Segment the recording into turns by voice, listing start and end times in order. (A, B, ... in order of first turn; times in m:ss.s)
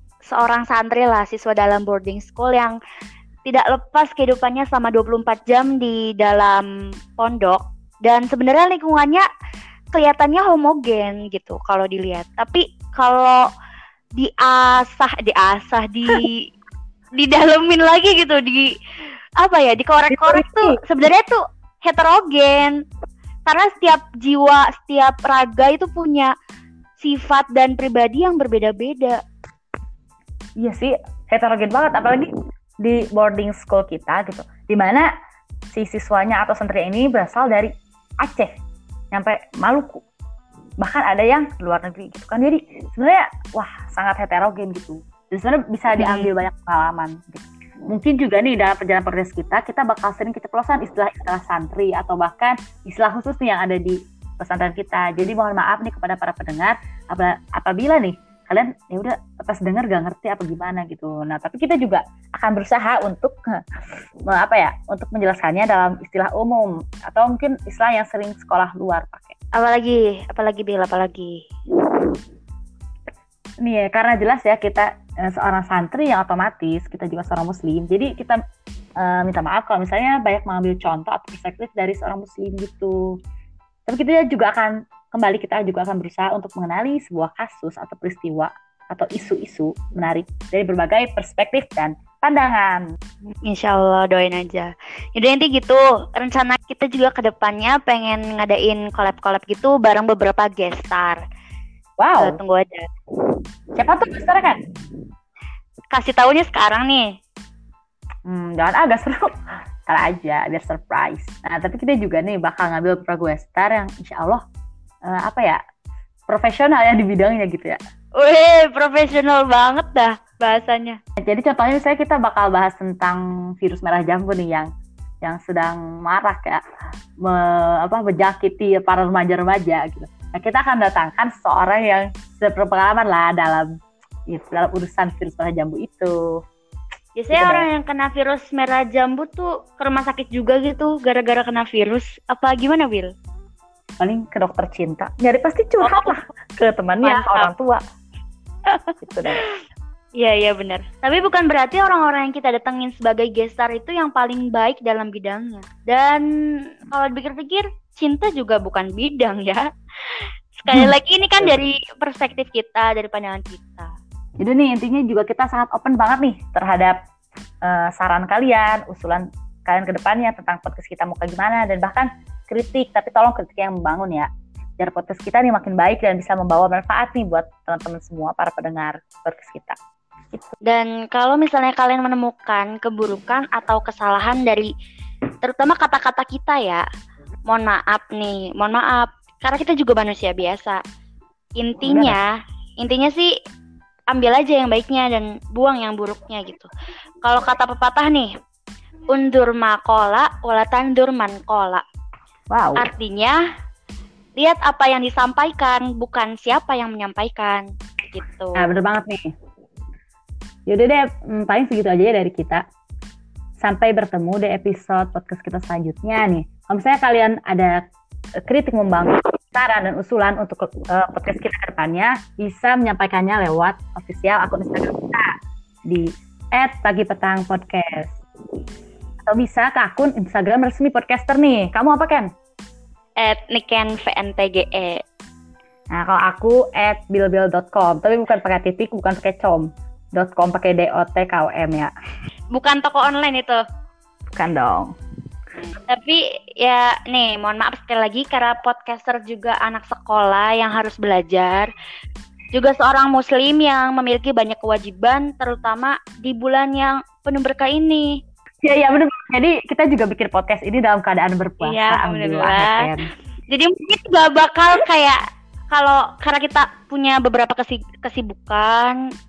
0:00.3-0:02.8 A
0:03.4-0:09.2 A
0:09.9-0:13.4 A
0:14.2-0:16.4 A
0:17.2-0:18.7 A
0:19.4-0:22.8 A
0:20.1-0:20.8 B
0:23.4-0:26.3 A
0:27.0-0:29.2 A
0:30.6-0:35.1 B
0:35.7-0:38.5 B
0:39.1-0:40.0 B
0:40.8-1:03.6 B
0:46.0-0:46.3 A
1:04.3-1:09.3 B
1:09.5-1:11.4 A
1:13.6-1:18.4 B
1:19.0-1:23.1 B
1:23.9-1:32.8 B
1:33.4-1:41.2 A
1:42.0-1:42.4 B
1:42.2-1:42.9 A
1:43.7-1:44.6 B
1:45.9-1:47.1 A
1:48.2-1:49.3 B
1:49.8-1:54.4 B
1:55.0-1:55.6 B
1:56.3-1:57.8 B
1:58.2-2:01.0 A
2:01.2-2:04.7 B
2:05.2-2:06.6 B
2:07.2-2:13.7 B
2:14.3-2:16.4 B
2:17.2-2:23.1 A
2:17.3-2:17.7 B
2:24.0-2:27.8 B
2:25.8-2:26.2 A
2:27.0-2:27.5 A
2:29.0-2:29.4 B
2:30.2-2:36.3 A
2:36.9-2:39.6 A
2:40.5-2:43.9 A
2:40.7-2:41.6 B
2:44.4-2:47.0 B
2:47.6-2:59.8 B
3:00.6-3:04.7 A
3:05.4-3:06.8 A
3:07.5-3:10.8 A
3:11.6-3:13.3 A
3:11.8-3:12.2 B
3:14.1-3:16.7 A
3:17.2-3:18.3 A
3:19.1-3:21.8 A
3:22.5-3:22.8 B
3:22.8-3:23.4 A
3:24.4-3:28.7 A
3:28.6-3:29.3 B
3:30.7-3:32.6 B
3:33.6-3:37.8 B
3:38.4-3:45.3 B
3:45.9-3:48.2 B
3:49.2-3:52.3 B
3:53.2-3:55.0 A
3:55.9-4:01.9 B
4:02.5-4:03.6 A
4:04.3-4:04.9 B
4:05.7-4:11.7 A
4:12.5-4:18.2 A
4:18.6-4:23.0 B
4:21.6-4:22.9 A
4:23.5-4:29.0 A